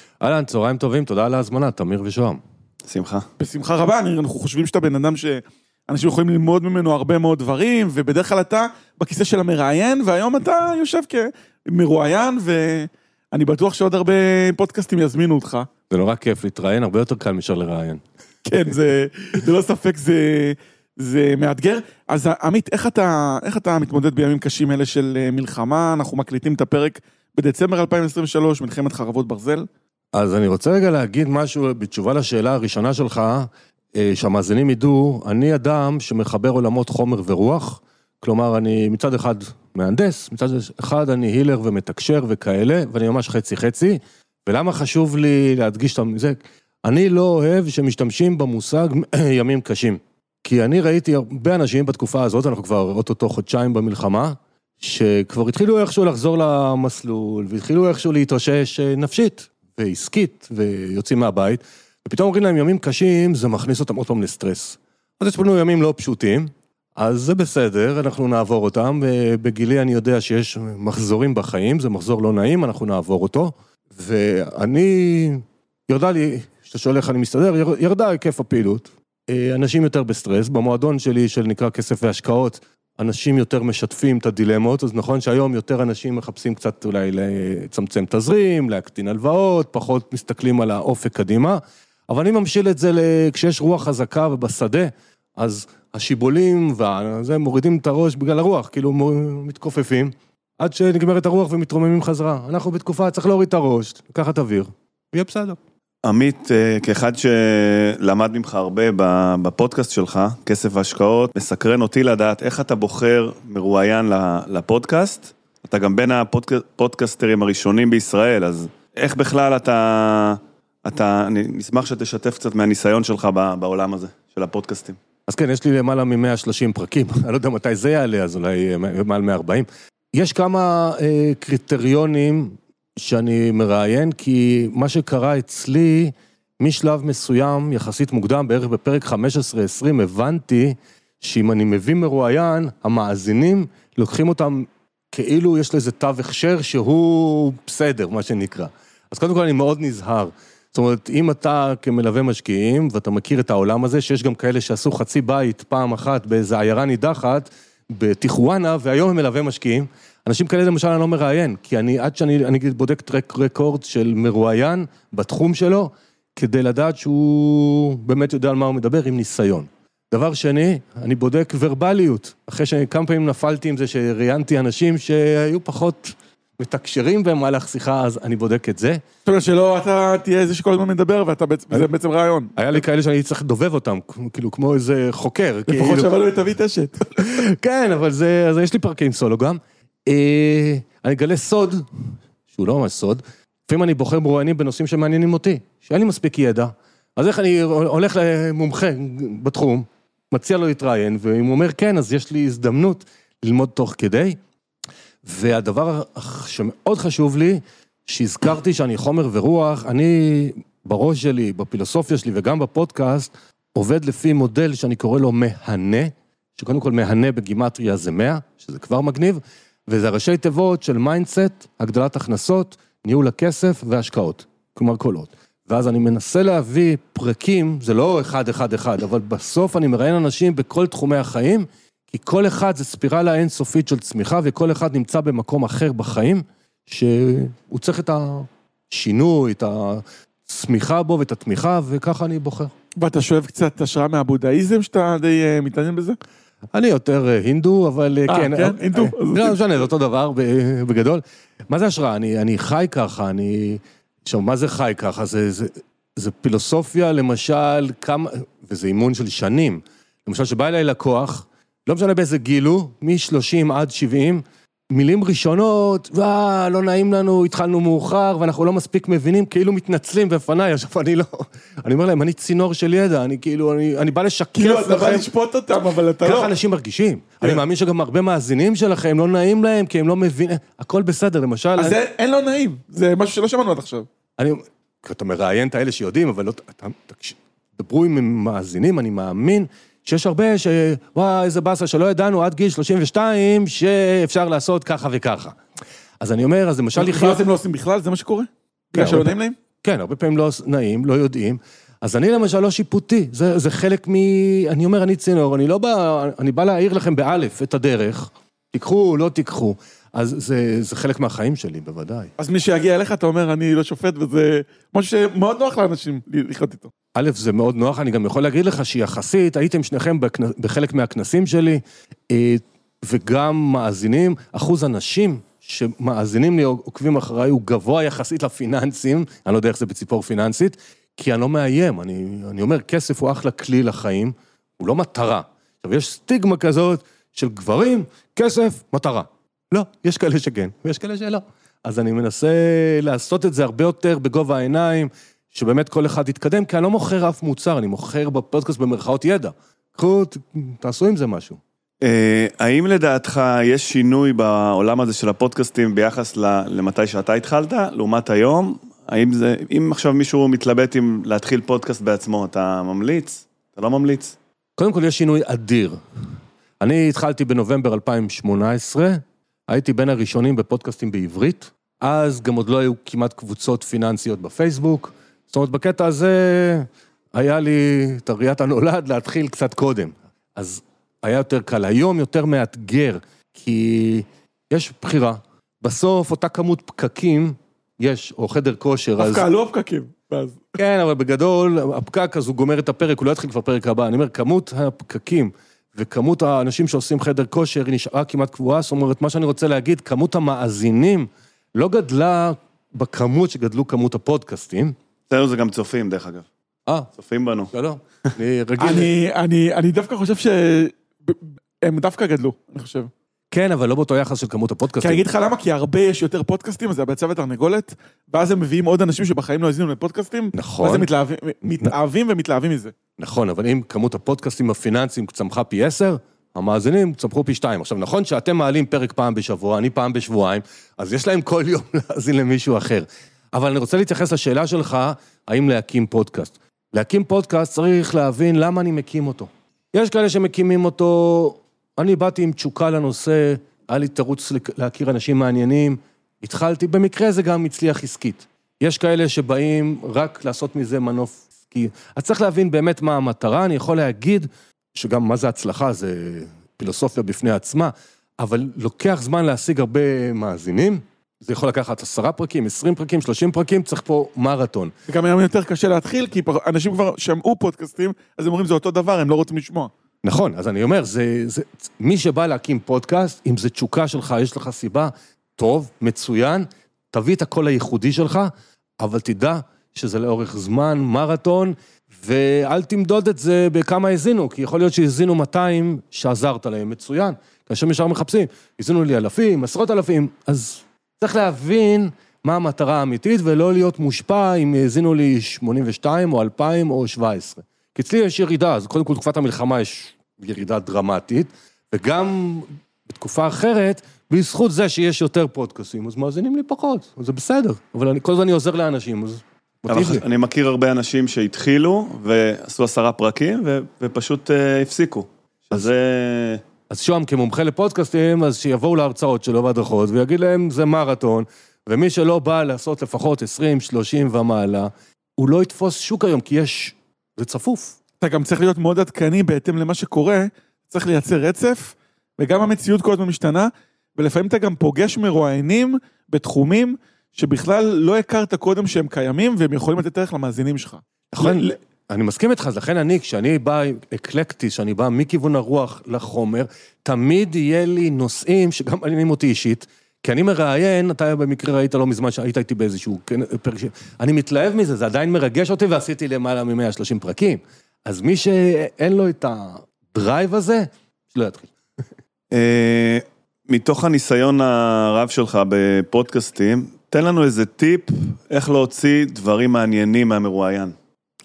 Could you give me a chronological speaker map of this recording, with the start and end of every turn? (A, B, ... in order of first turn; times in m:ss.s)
0:00.2-0:02.4 A
0:02.9-0:03.3 B
0:03.4-0:15.7 C
0:15.9-0:18.0 A
0:18.5-0:29.7 C
0:30.1-1:45.6 A
1:46.0-2:05.0 B
2:05.3-2:59.0 A
2:59.3-3:02.6 C
3:02.6-3:06.1 A
3:05.7-3:07.0 C
3:07.1-3:24.4 A
3:25.2-4:02.7 A
4:03.0-4:06.2 C
4:06.7-4:35.3 A
4:08.3-4:09.6 C
4:34.6-4:36.5 C
4:36.2-4:42.0 A
4:41.8-4:44.1 C
4:44.4-4:55.6 A
4:56.2-4:57.4 A
4:57.0-4:59.6 C
4:58.9-5:12.3 A
5:12.4-5:16.9 C
5:17.1-5:51.6 A
5:52.0-6:04.4 B
6:04.8-6:06.0 A
6:06.8-6:29.5 A
6:29.2-6:30.8 C
6:30.8-6:45.0 A
6:45.3-6:46.5 B
6:47.2-6:47.7 B
6:47.7-6:49.1 A
6:48.8-6:53.1 C
6:53.5-6:55.2 A
6:55.0-7:02.9 C
7:00.6-7:01.1 A
7:03.2-7:44.9 A
7:45.1-7:49.9 C
7:50.2-8:30.2 A
8:29.9-8:36.6 B
8:36.9-8:48.0 A
8:48.2-9:01.8 C
9:01.3-9:21.7 A
9:22.5-9:31.0 B